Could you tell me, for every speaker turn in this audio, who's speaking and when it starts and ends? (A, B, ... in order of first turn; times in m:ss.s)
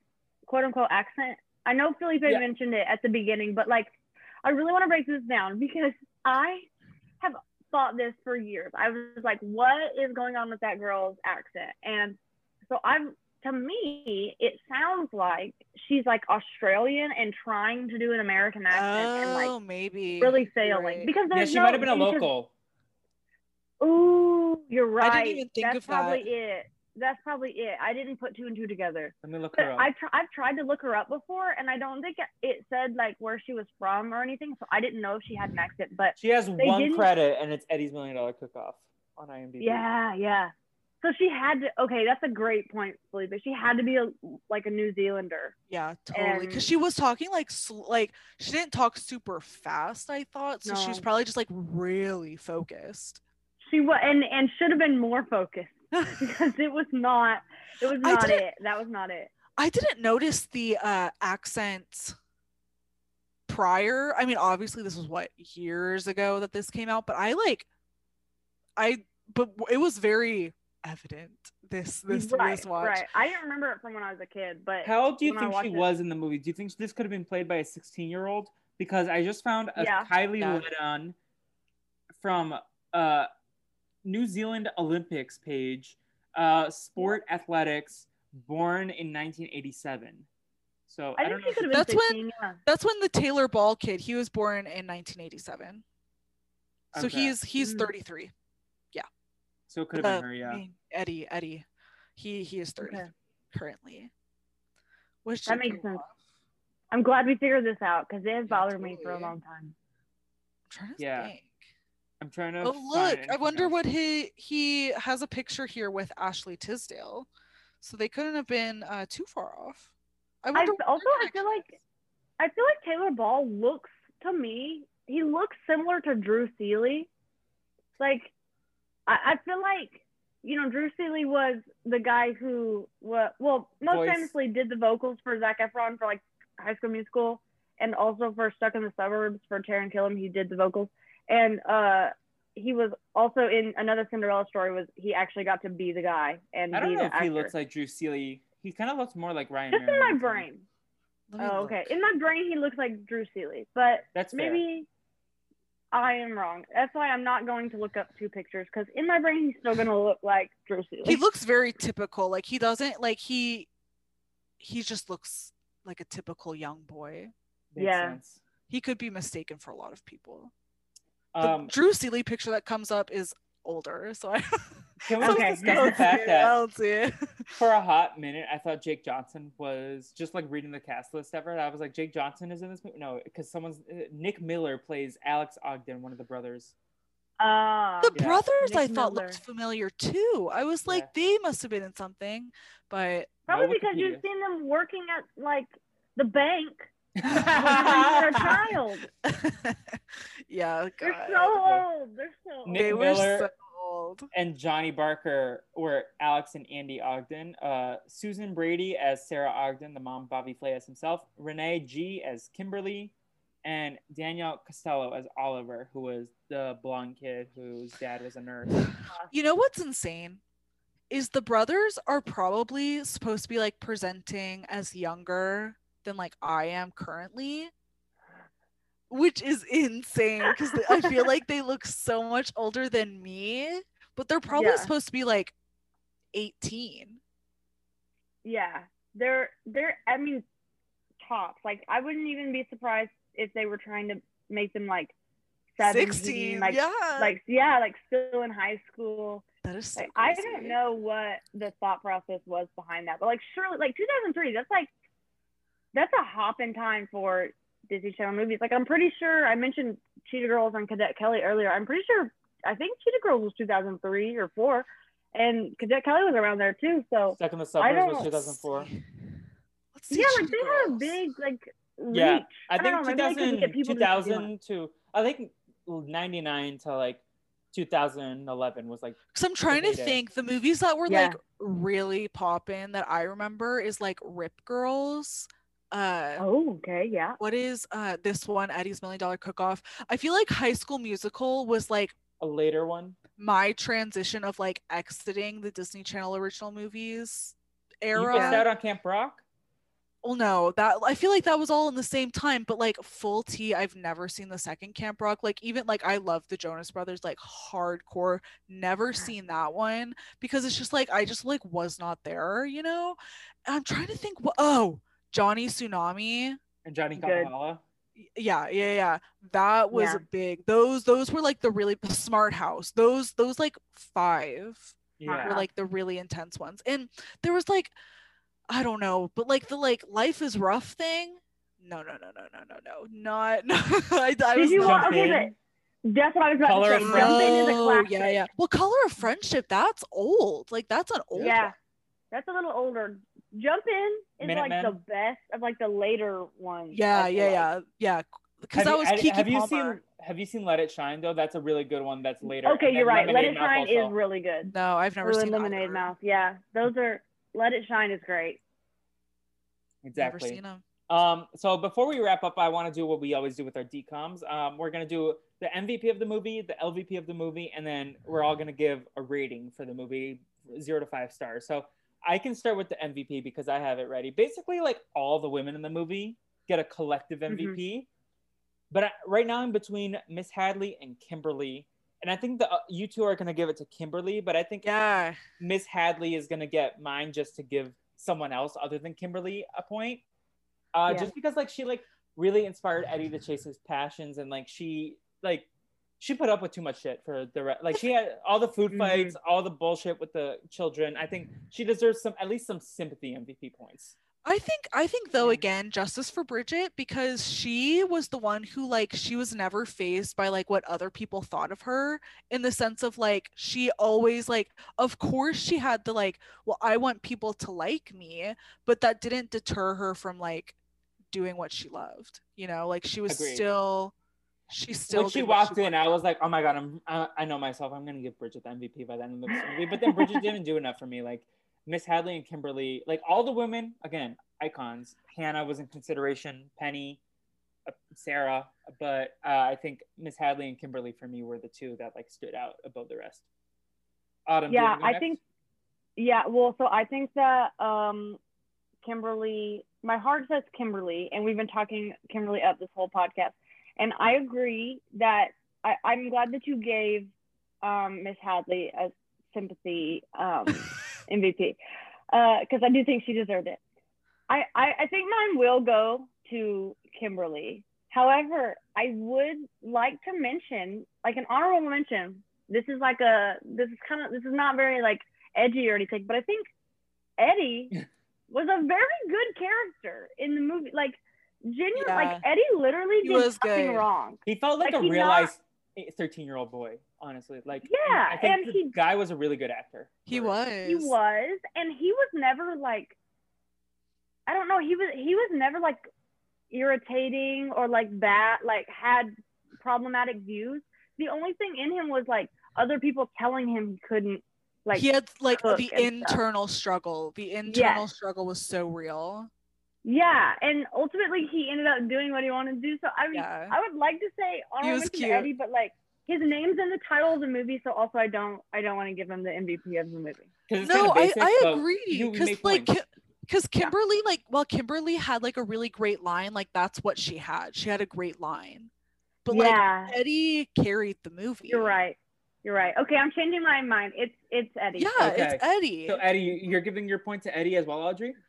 0:00.5-0:06.7 A
0:07.2-0:19.5 A
0:18.7-0:21.1 B
0:20.2-0:22.3 A
0:21.3-0:22.5 C
0:23.8-0:37.1 A
0:25.0-0:26.3 B
0:29.2-0:29.9 C
0:36.2-0:39.8 C
0:39.6-0:45.5 A
0:45.7-0:53.2 B
0:46.1-0:46.7 A
0:50.6-0:51.0 A
0:53.6-0:59.3 A
0:55.9-0:56.2 B
0:58.0-0:58.4 B
0:59.6-1:02.1 B
1:03.5-1:07.7 B
1:08.8-1:13.0 B
1:12.1-1:15.8 A
1:14.8-1:21.1 C
1:19.8-1:20.1 A
1:20.4-1:20.6 B
1:22.2-1:23.3 C
1:24.0-1:30.3 C
1:30.9-1:31.7 C
1:31.2-1:32.6 A
1:31.7-1:35.8 B
1:36.9-1:37.4 C
1:37.0-1:38.3 B
1:37.6-1:37.9 A
1:39.7-1:40.6 C
1:39.9-1:44.1 B
1:42.8-1:43.1 A
1:45.2-1:46.1 B
1:45.5-1:46.0 A
1:46.9-1:49.7 A
1:48.5-1:49.3 B
1:50.7-1:51.6 B
1:51.0-1:51.3 C
1:52.2-1:53.8 C
1:52.6-1:57.3 B
1:57.8-1:59.9 B
2:00.4-2:01.7 B
2:00.5-2:01.7 A
2:02.4-2:07.1 A
2:08.0-2:08.3 A
2:09.1-2:27.5 A
2:13.8-2:14.3 C
2:26.7-2:30.5 C
2:29.7-2:30.6 A
2:31.3-2:31.9 B
2:31.4-2:34.9 A
2:34.1-2:34.6 C
2:35.9-2:41.2 A
2:41.0-2:43.7 B
2:44.6-2:47.3 B
2:47.7-2:48.4 C
2:47.8-2:48.2 A
2:48.7-2:50.5 B
2:51.3-2:51.7 C
2:51.4-2:57.5 B
2:55.0-2:56.6 C
2:57.6-3:06.7 C
3:07.4-3:09.4 A
3:08.0-3:13.4 B
3:08.1-3:08.4 C
3:13.5-3:16.9 A
3:13.5-3:14.2 C
3:17.2-3:18.6 C
3:17.3-3:17.8 B
3:17.5-3:19.0 A
3:19.2-3:21.6 B
3:21.0-3:23.0 A
3:22.6-3:23.5 C
3:22.7-3:24.3 B
3:24.3-3:33.1 C
3:33.6-3:38.9 C
3:39.3-3:40.4 B
3:41.1-3:47.7 B
3:49.1-3:55.5 B
3:54.5-3:54.9 A
3:56.3-3:57.2 B
3:58.4-4:00.4 A
4:01.2-4:05.1 A
4:05.8-4:09.4 A
4:05.8-4:07.3 B
4:09.6-4:10.8 B
4:10.0-4:14.9 A
4:15.9-4:28.5 A
4:27.4-4:28.9 C
4:28.6-4:29.4 B
4:29.9-4:31.2 B
4:30.1-4:34.5 A
4:32.1-4:37.2 C
4:37.7-4:40.2 C
4:39.3-4:46.4 B
4:41.1-4:41.4 A
4:46.4-4:47.4 A
4:47.4-4:52.1 B
4:52.4-4:53.2 C
4:53.4-4:58.6 B
4:58.1-4:59.4 C
4:58.3-4:58.7 A
5:00.2-5:16.6 B
5:16.8-5:17.8 C
5:17.2-5:17.5 A
5:18.2-5:27.9 B
5:19.9-5:20.2 A
5:25.2-5:25.6 C
5:25.2-5:25.6 A
5:28.7-5:35.3 B
5:34.5-5:38.4 A
5:34.7-5:35.5 C
5:36.6-5:37.7 C
5:37.0-5:41.7 B
5:41.4-5:41.7 A
5:42.3-5:47.7 A
5:44.4-5:45.0 C
5:46.9-5:50.0 B
5:48.7-5:54.1 C
5:52.6-5:58.6 A
5:54.7-5:56.1 B
6:00.0-6:18.1 C
6:00.2-6:00.8 B
6:17.5-6:17.8 A
6:18.9-6:24.9 C
6:24.8-6:25.4 B
6:25.6-6:30.2 C
6:30.9-6:35.7 C
6:36.2-6:44.1 C
6:38.9-6:39.3 A
6:44.4-7:00.8 B
7:01.3-7:04.1 B
7:03.3-7:03.6 C
7:04.7-7:06.1 B
7:05.1-7:17.2 C
7:10.0-7:10.4 A
7:17.8-7:23.4 C
7:24.4-7:25.4 C
7:24.7-7:25.4 A
7:26.2-7:28.4 A
7:29.0-7:37.3 A
7:37.8-7:41.8 A
7:42.3-7:43.8 A
7:44.5-7:56.7 A
7:57.4-7:57.9 A
7:58.5-8:05.5 A
8:01.9-8:02.4 B
8:03.2-8:04.0 B
8:04.4-8:10.5 C
8:07.8-8:08.9 A
8:10.3-8:11.2 B
8:10.8-8:13.2 A
8:14.5-8:16.1 A
8:16.7-8:26.4 A
8:24.9-8:29.5 B
8:27.7-8:28.0 A
8:30.0-8:40.5 A
8:33.3-8:33.8 B
8:34.8-8:35.5 B
8:40.7-8:42.9 C
8:40.8-8:48.9 B
8:49.4-8:51.9 B
8:49.5-8:50.1 A
8:51.7-8:55.4 A
8:55.0-8:56.2 B
8:55.2-8:58.4 C